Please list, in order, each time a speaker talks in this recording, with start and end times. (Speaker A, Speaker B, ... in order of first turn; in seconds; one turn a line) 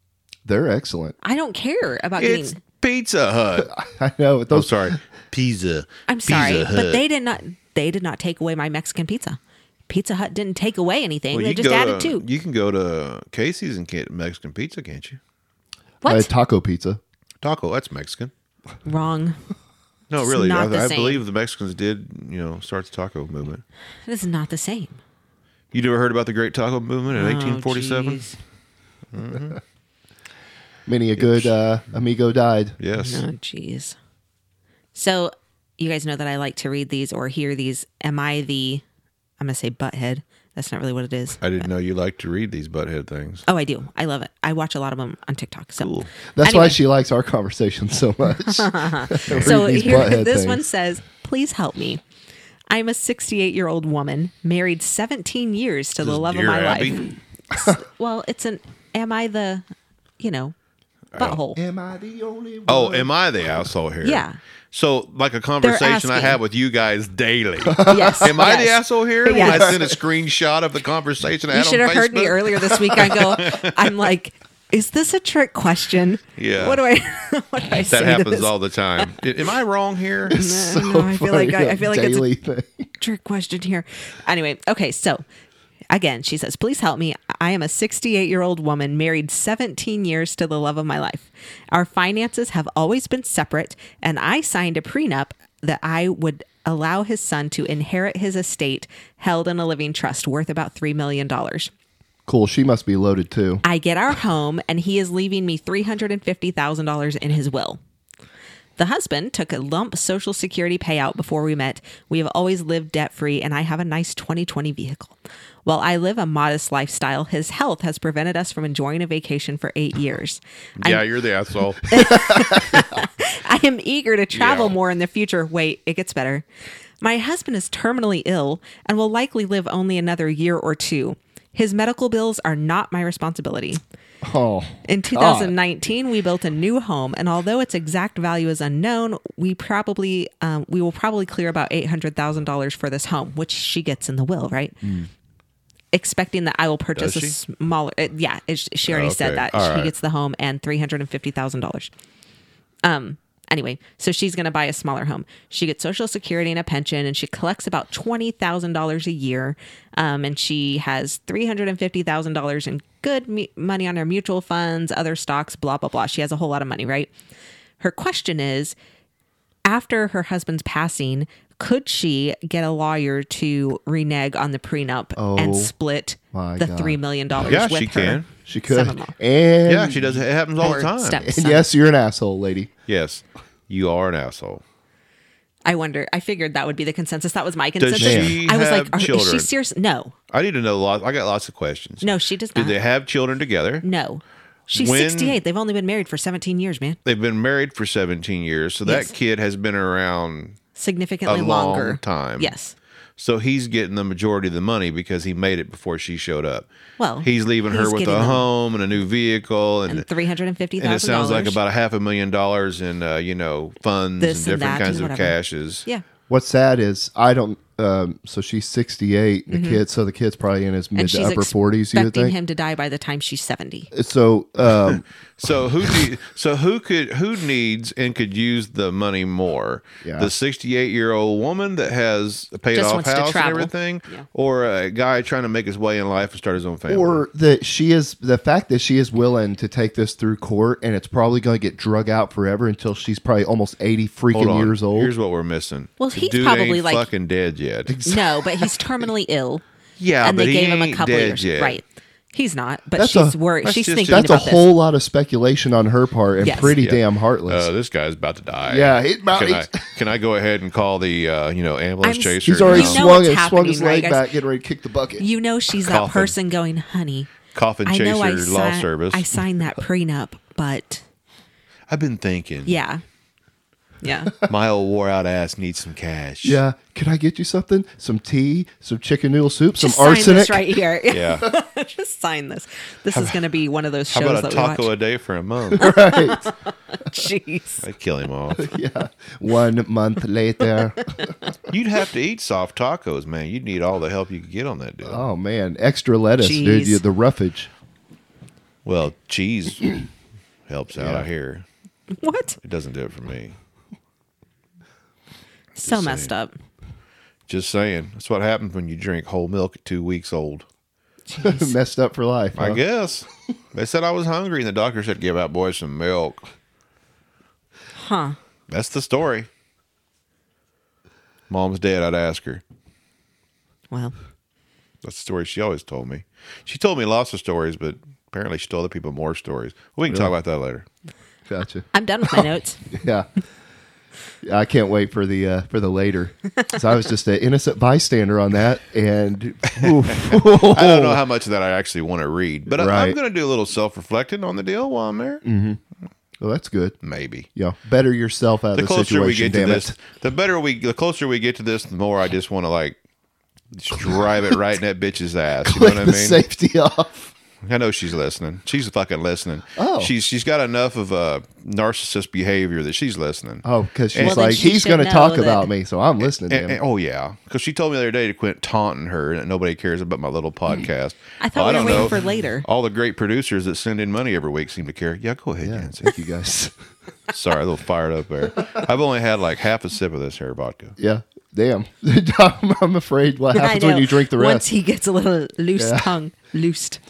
Speaker A: 0.4-1.1
Speaker B: 1.2-2.6
Speaker C: 2.2-3.7
Speaker A: 3.6-5.0
Speaker C: 4.5-7.0
Speaker B: 6.1-12.2
Speaker C: 11.3-15.2
Speaker B: 16.0-16.3
Speaker A: 16.0-17.0
Speaker C: 17.4-18.3
Speaker B: 18.8-19.4
Speaker C: 20.1-23.6
Speaker B: 20.2-21.2
Speaker B: 24.1-25.0
Speaker C: 25.7-28.2
Speaker B: 27.1-28.4
Speaker C: 29.1-29.6
Speaker A: 30.9-32.8
Speaker C: 31.2-31.5
Speaker C: 32.8-33.2
Speaker B: 32.9-34.0
Speaker B: 34.9-38.8
Speaker B: 39.4-41.4
Speaker C: 41.4-43.4
Speaker B: 43.5-46.8
Speaker C: 45.8-46.1
Speaker A: 46.3-50.6
Speaker B: 48.4-52.0
Speaker C: 49.3-49.6
Speaker B: 52.7-59.6
Speaker C: 56.0-57.0
Speaker B: 60.2-60.5
Speaker C: 61.1-61.4
Speaker B: 61.2-61.6
Speaker A: 61.5-63.1
Speaker C: 62.7-73.9
Speaker B: 64.0-64.4
Speaker B: 65.6-66.4
Speaker A: 67.7-68.3
Speaker B: 67.8-69.9
Speaker A: 69.3-69.8
Speaker B: 71.5-79.2
Speaker C: 76.4-76.8
Speaker C: 77.9-80.4
Speaker A: 80.3-82.9
Speaker B: 80.3-82.3
Speaker B: 83.0-85.2
Speaker B: 85.9-101.7
Speaker A: 102.2-103.6
Speaker B: 103.6-107.8
Speaker B: 108.8-121.0
Speaker C: 120.8-122.5
Speaker B: 121.9-126.4
Speaker C: 124.3-124.7
Speaker B: 127.0-133.8
Speaker A: 134.2-135.5
Speaker B: 134.9-144.8
Speaker A: 144.8-145.1
Speaker B: 145.9-151.9
Speaker C: 146.9-147.3
Speaker C: 148.9-149.9
Speaker B: 152.8-167.1
Speaker B: 167.8-168.8
Speaker B: 169.6-179.2
Speaker A: 175.2-175.7
Speaker A: 176.3-177.0
Speaker C: 177.4-178.3
Speaker A: 178.4-180.2
Speaker C: 179.6-181.2
Speaker B: 180.6-181.6
Speaker A: 181.2-182.7
Speaker C: 182.9-184.6
Speaker B: 185.6-190.1
Speaker C: 187.8-189.5
Speaker A: 188.0-188.3
Speaker C: 190.3-193.8
Speaker B: 192.0-192.8
Speaker B: 193.8-197.0
Speaker C: 194.7-195.4
Speaker C: 197.0-200.6
Speaker B: 198.8-199.1
Speaker B: 200.8-202.7
Speaker C: 201.2-202.5
Speaker C: 203.2-206.7
Speaker B: 207.0-208.4
Speaker C: 207.2-210.1
Speaker B: 209.9-211.6
Speaker C: 210.8-215.8
Speaker B: 214.2-216.0
Speaker A: 216.3-222.3
Speaker B: 219.5-219.8
Speaker B: 220.9-223.9
Speaker A: 223.9-225.0
Speaker C: 224.8-237.2
Speaker A: 230.0-230.3
Speaker B: 232.7-234.2
Speaker A: 236.9-245.1
Speaker C: 244.3-248.0
Speaker B: 246.0-247.1
Speaker A: 247.9-248.7
Speaker B: 248.0-249.6
Speaker C: 250.0-251.8
Speaker B: 250.2-254.7
Speaker A: 252.9-253.3
Speaker C: 253.6-254.4
Speaker A: 254.1-257.7
Speaker B: 256.4-256.8
Speaker C: 256.8-263.1
Speaker A: 258.6-259.9
Speaker B: 262.0-264.2
Speaker A: 262.4-265.2
Speaker B: 265.2-267.3
Speaker C: 265.7-266.3
Speaker C: 267.5-269.2
Speaker B: 267.9-271.0
Speaker C: 271.9-272.7
Speaker B: 272.6-273.0
Speaker B: 274.0-274.3
Speaker C: 274.4-276.6
Speaker A: 276.4-280.8
Speaker B: 279.8-284.9
Speaker C: 281.1-281.5
Speaker C: 283.1-283.4
Speaker C: 284.1-285.9
Speaker B: 285.8-287.8
Speaker A: 285.8-286.5
Speaker C: 287.8-288.7
Speaker A: 288.6-291.3
Speaker B: 291.0-291.2
Speaker C: 291.7-295.2
Speaker A: 295.0-297.7
Speaker B: 296.4-297.0
Speaker C: 298.8-300.0
Speaker C: 300.7-301.6
Speaker A: 300.9-301.3
Speaker B: 302.1-302.6
Speaker C: 302.6-303.5
Speaker B: 305.7-306.6
Speaker C: 305.8-306.3
Speaker C: 307.5-310.6
Speaker B: 311.3-311.7
Speaker A: 311.4-312.8
Speaker C: 312.5-316.4
Speaker B: 317.9-318.4
Speaker C: 318.7-319.5
Speaker C: 321.5-322.6
Speaker C: 325.0-330.8
Speaker A: 331.5-333.3
Speaker B: 331.9-332.8
Speaker A: 334.4-341.2
Speaker C: 339.7-345.4
Speaker A: 342.7-343.2
Speaker A: 345.4-345.8
Speaker A: 346.4-347.0
Speaker C: 347.0-347.5
Speaker A: 347.5-349.9
Speaker C: 348.7-353.0
Speaker C: 353.7-356.4
Speaker A: 355.6-357.3
Speaker C: 357.6-364.4
Speaker A: 359.8-360.1
Speaker A: 363.6-366.8
Speaker B: 364.2-365.7
Speaker C: 366.4-376.1
Speaker B: 371.4-372.6
Speaker A: 375.6-376.7
Speaker C: 377.3-380.9
Speaker A: 381.0-384.6
Speaker B: 383.5-387.0
Speaker A: 385.8-386.1